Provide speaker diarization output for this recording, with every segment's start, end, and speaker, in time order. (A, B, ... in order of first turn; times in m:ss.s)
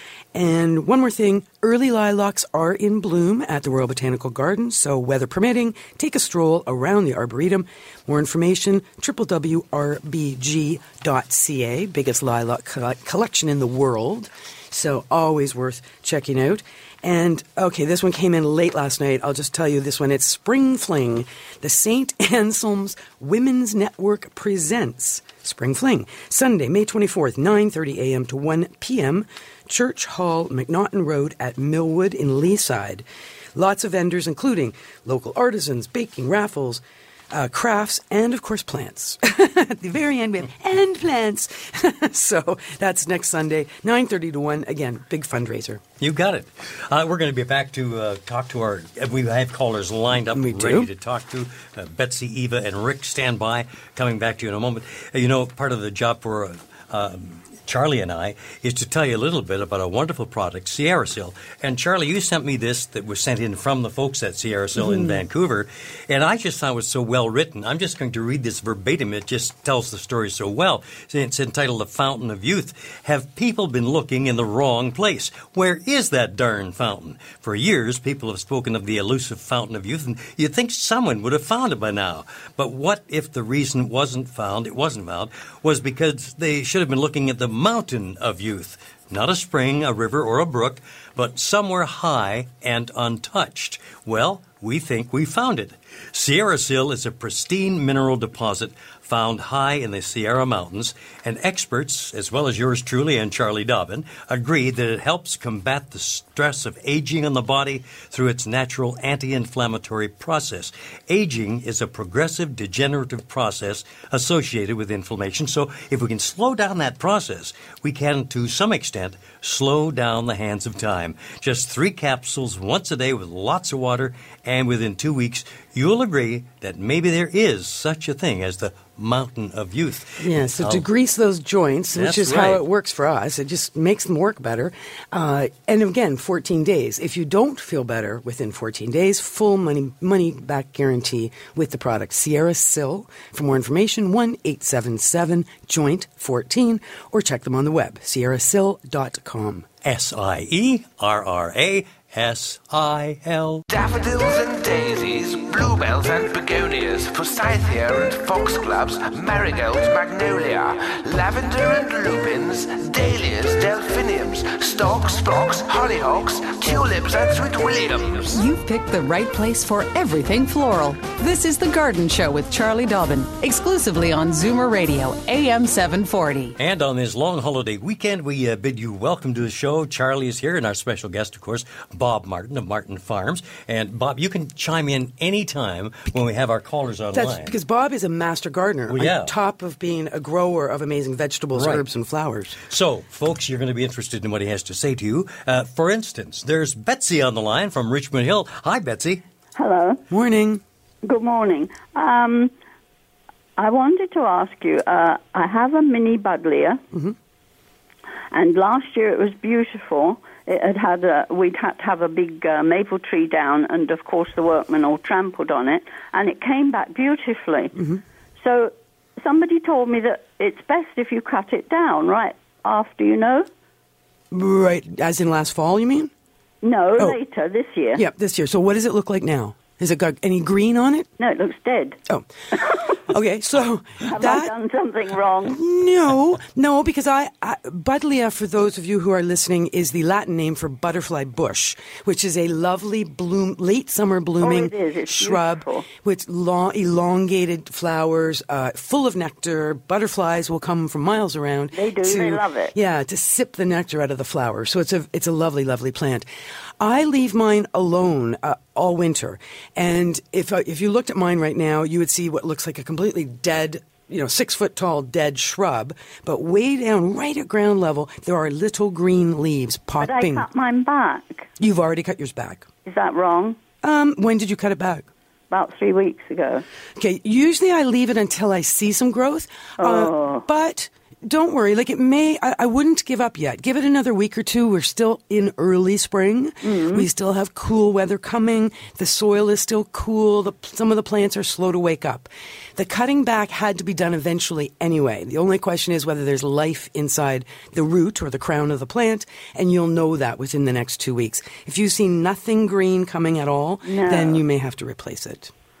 0:00.3-0:45.8 A
0:46.0-2:10.8 B
0:50.3-0:50.9 A
1:04.8-1:05.2 A
2:10.2-2:29.7 A
2:11.9-2:12.6 B
2:29.8-2:33.6 B
2:33.7-2:48.4 C
2:48.3-2:56.6 D
2:56.6-3:07.5 B
3:07.1-3:12.6 A
3:08.9-3:09.3 B
3:11.5-3:11.9 B
3:12.6-3:19.2 B
3:19.6-3:20.0 E
3:20.1-3:20.6 A
3:21.0-3:22.5 E
3:23.6-3:26.8 E
3:28.3-3:37.7 E
3:37.7-3:38.0 A
3:38.4-3:43.5 E
3:44.3-3:46.1 A
3:46.6-3:48.0 E
3:47.9-3:51.1 A
3:51.2-3:52.0 E
3:52.9-3:54.5 A
3:54.0-3:55.6 E
3:55.4-4:16.2 A
4:04.4-4:05.9 E
4:11.7-4:12.7 E
4:16.8-4:30.5 A
4:30.0-4:31.5 E
4:31.6-4:32.7 A
4:32.8-4:33.6 E
4:33.8-4:35.1 A
4:35.5-4:36.6 E
4:37.0-5:05.5 A
4:39.8-4:40.4 E
4:46.6-4:47.0 E
5:03.8-5:04.4 E